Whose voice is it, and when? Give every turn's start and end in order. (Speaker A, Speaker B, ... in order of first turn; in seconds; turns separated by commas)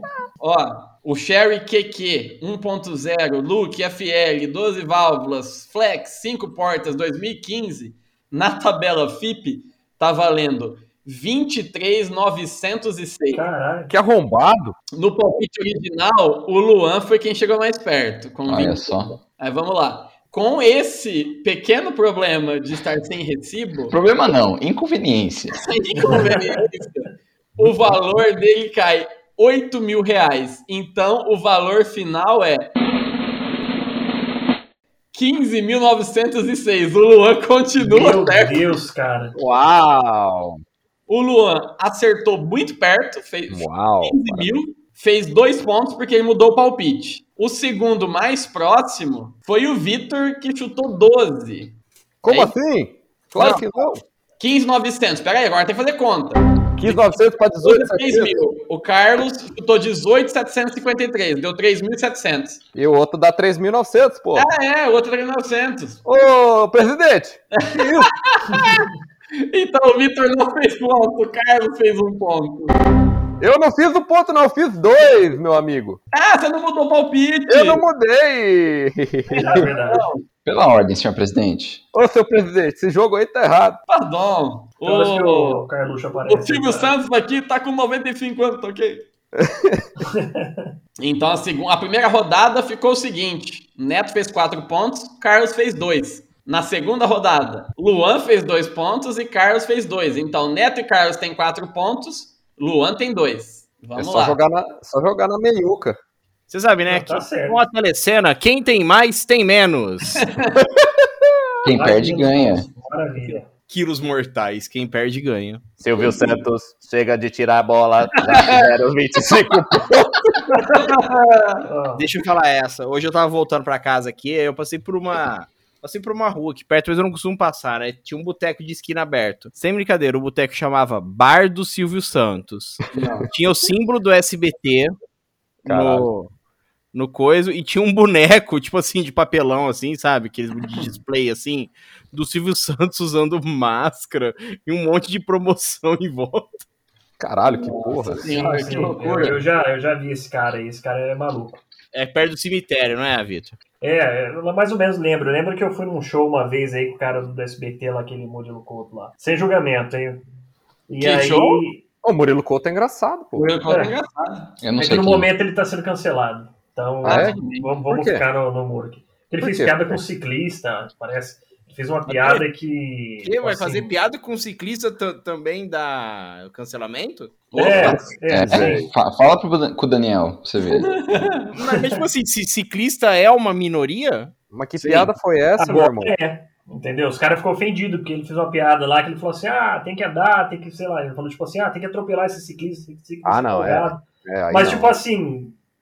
Speaker A: 0.4-13.4, Speaker B: 13.3-13.9, Speaker C: 13.9-14.7, Speaker A: 14.9-23.9, Speaker D: 18.5-19.2, Speaker D: 23.9-25.6, Speaker A: 25.5-32.7, Speaker B: 26.0-26.5, Speaker A: 35.1-38.7, Speaker B: 37.8-39.3, Speaker C: 39.4-40.6, Speaker A: 41.1-51.7, Speaker C: 43.5-44.5, Speaker C: 52.2-54.0, Speaker A: 52.3-52.5, Speaker A: 53.4-53.6, Speaker A: 54.4-62.6, Speaker C: 56.8-58.4, Speaker C: 62.7-64.5, Speaker A: 64.3-66.0, Speaker C: 66.0-68.1, Speaker A: 67.5-72.8, Speaker C: 73.4-76.0, Speaker A: 76.1-77.8, Speaker C: 77.5-79.7, Speaker B: 79.3-80.1, Speaker A: 79.4-80.2, Speaker D: 80.4-81.8, Speaker C: 81.9-83.8, Speaker A: 83.9-89.0, Speaker B: 84.8-86.9, Speaker C: 89.3-89.9, Speaker B: 90.0-90.7, Speaker A: 91.0-104.4, Speaker C: 104.0-106.0, Speaker E: 106.5-110.2, Speaker B: 106.9-107.6, Speaker A: 110.2-110.6, Speaker C: 110.6-111.1, Speaker D: 111.6-112.7, Speaker B: 111.7-113.5, Speaker E: 113.7-115.6, Speaker C: 115.8-120.6, Speaker A: 118.2-118.7, Speaker A: 120.5-121.6, Speaker B: 121.7-122.0, Speaker E: 122.0-134.9, Speaker A: 132.9-133.3, Speaker C: 135.6-136.1, Speaker E: 135.6-136.3, Speaker E: 136.9-146.6, Speaker C: 147.2-148.3, Speaker A: 147.4-149.4, Speaker B: 148.3-151.6, Speaker E: 151.9-153.6, Speaker B: 153.8-160.2, Speaker B: 160.9-161.8, Speaker A: 161.0-161.6, Speaker C: 162.0-163.6, Speaker A: 163.3-164.5, Speaker B: 163.7-163.9, Speaker D: 164.6-165.3, Speaker B: 164.8-173.9, Speaker C: 167.0-168.2, Speaker A: 167.0-167.8, Speaker C: 169.4-170.0, Speaker E: 172.1-172.4, Speaker E: 173.2-177.3, Speaker A: 177.5-178.1, Speaker B: 177.6-178.8, Speaker C: 177.7-178.9, Speaker D: 178.3-180.9, Speaker A: 180.7-181.4, Speaker E: 181.5-185.1, Speaker B: 181.7-182.0, Speaker C: 184.5-186.2, Speaker B: 185.6-195.5, Speaker C: 193.2-195.0